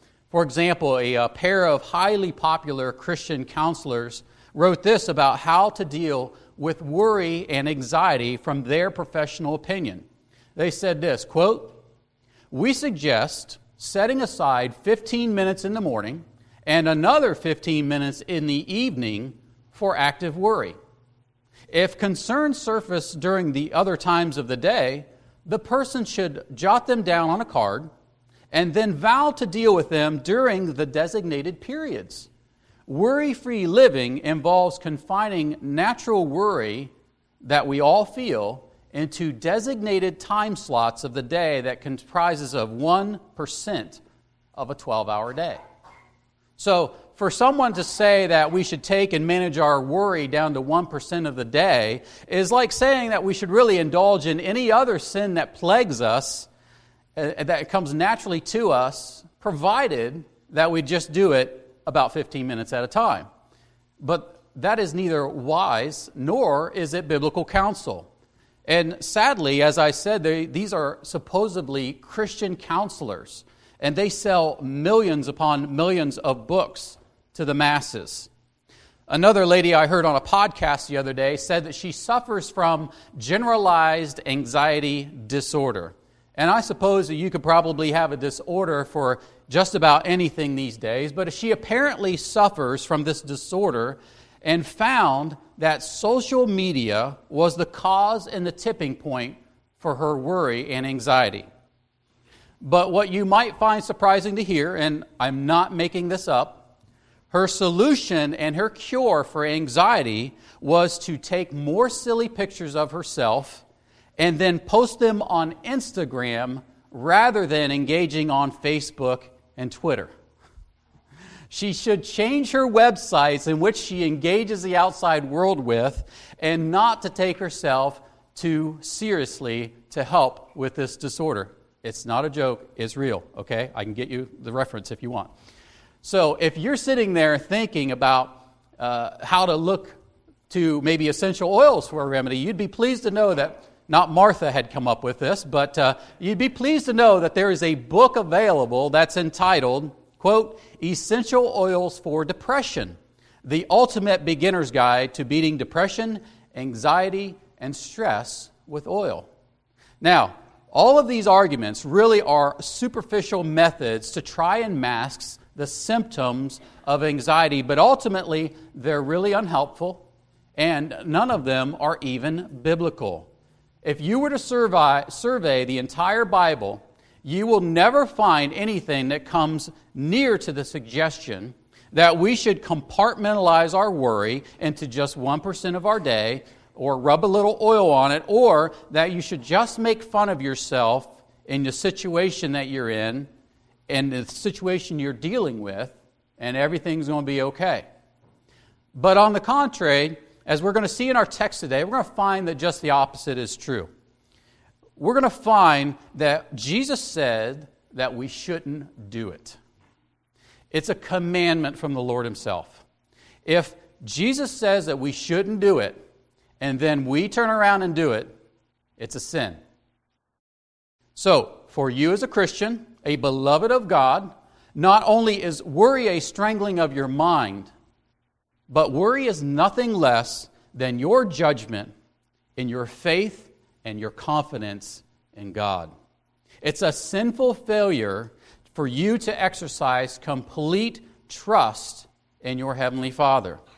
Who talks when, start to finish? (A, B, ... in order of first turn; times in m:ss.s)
0:00.3-0:10.0 A
0:10.6-0:11.8 A
0:12.5-0:20.8 A
0:21.7-0:27.9 A
0:28.5-0:32.3 A
0:32.9-0:36.9 A
0:37.4-0:44.0 A
0:44.6-0:45.6 A
0:46.6-0:56.5 A
0:57.2-1:03.3 A
1:04.0-1:08.1 A
1:08.7-1:18.3 A
1:19.1-1:41.5 A
1:42.6-1:46.7 A
1:47.3-1:53.6 A
1:54.2-2:00.1 A
2:01.5-2:15.3 A
2:16.0-2:20.0 A
2:20.5-2:39.3 A
2:40.0-2:53.3 A
2:53.8-3:13.3 A
3:13.9-3:17.9 A
3:18.9-3:23.9 A
3:25.0-3:29.6 A
3:30.7-3:32.8 A
3:33.4-3:36.0 A
3:36.6-3:38.3 A
3:39.0-3:39.6 A
3:41.2-3:47.7 A
3:48.7-3:51.9 A
3:52.6-3:55.9 A
3:56.6-4:03.6 A